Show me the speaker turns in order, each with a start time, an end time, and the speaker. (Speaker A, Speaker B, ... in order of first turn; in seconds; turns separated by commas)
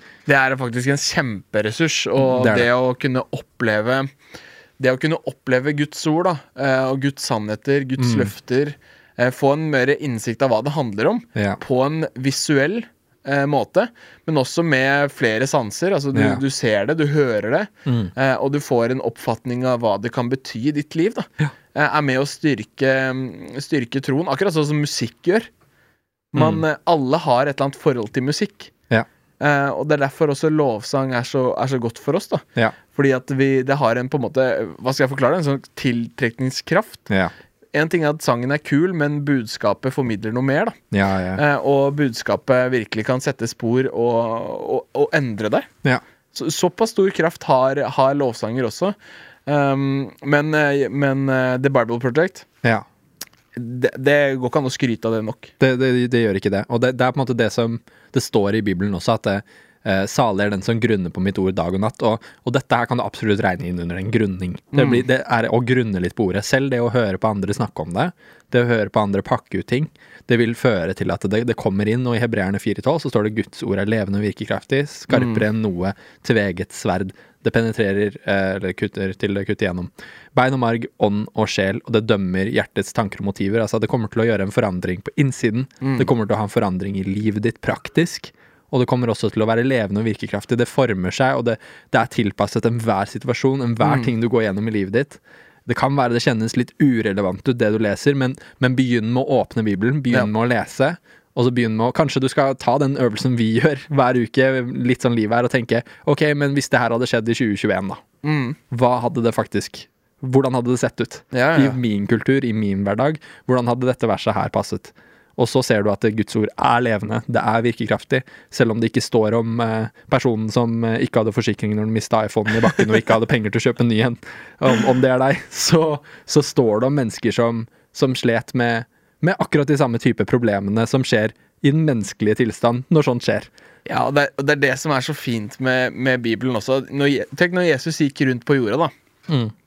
Speaker A: 0.3-4.1, Speaker B: 2.2-2.7, Speaker A: 4.8-25.5, Speaker B: 8.0-8.3, Speaker B: 16.1-16.4, Speaker B: 17.9-18.1, Speaker A: 26.3-28.7, Speaker B: 26.4-26.6, Speaker A: 29.4-37.1, Speaker A: 37.7-40.8, Speaker B: 40.9-41.4, Speaker A: 41.4-45.7, Speaker A: 46.3-49.0, Speaker A: 49.5-52.5, Speaker A: 53.6-55.5, Speaker B: 55.6-108.0, Speaker A: 64.7-65.0, Speaker A: 75.1-75.4, Speaker A: 85.8-86.1, Speaker A: 93.8-94.1, Speaker A: 108.2-108.6, Speaker B: 108.7-133.5, Speaker A: 111.3-111.8, Speaker A: 133.9-138.9, Speaker B: 139.3-139.5